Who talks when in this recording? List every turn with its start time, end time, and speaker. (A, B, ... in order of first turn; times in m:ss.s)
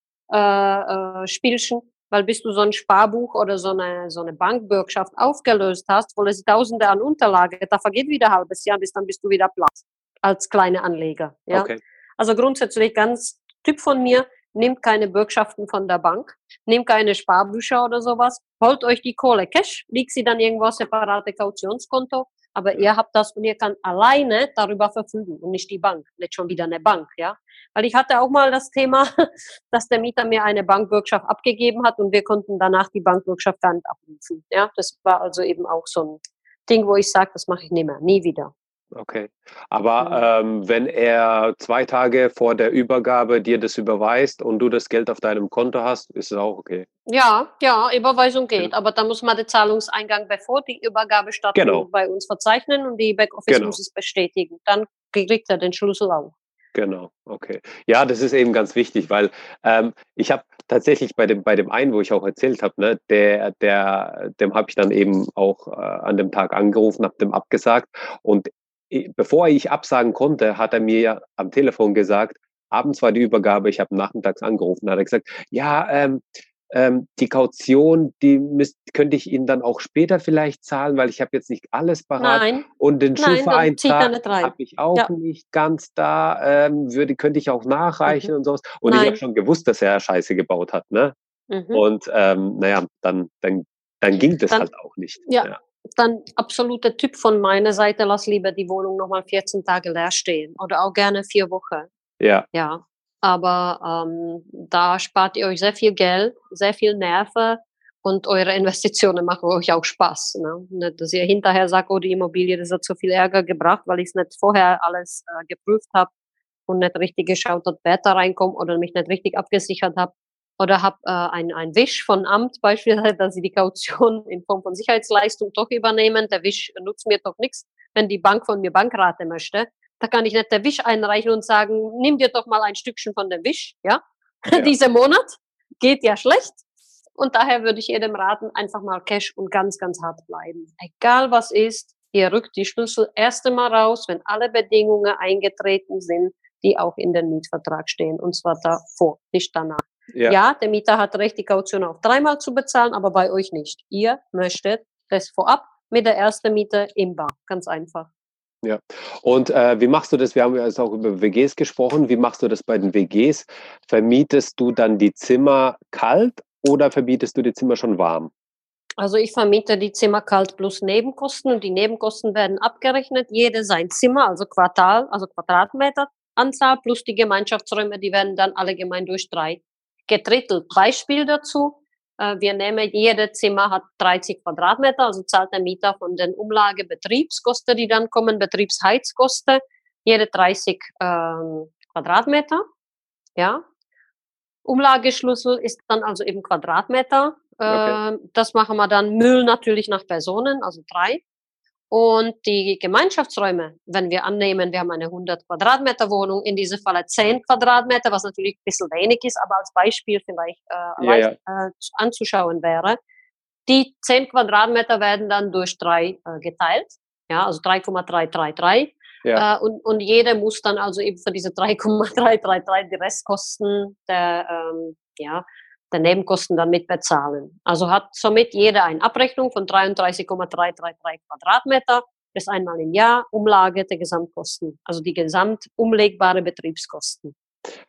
0:00.3-0:38.5 A
0:11.5-0:11.8 B
0:38.9-0:46.8 B
0:47.1-0:56.3 A
0:51.5-0:51.9 B
0:53.5-0:53.8 B
0:56.7-1:31.1 B
1:22.2-1:22.6 A
1:23.2-1:25.1 A
1:28.9-1:29.2 A
1:31.5-1:31.8 A
1:31.7-1:35.6 B
1:35.3-1:41.9 A
1:42.2-1:42.4 B
1:42.5-1:56.1 A
1:56.7-2:16.6 A
2:17.2-2:38.1 A
2:38.6-2:48.3 B
2:49.0-3:12.6 A
3:13.4-3:13.6 A
3:14.6-3:21.2 A
3:17.7-3:18.0 B
3:21.9-3:33.0 A
3:31.0-3:31.3 B
3:33.7-3:57.3 A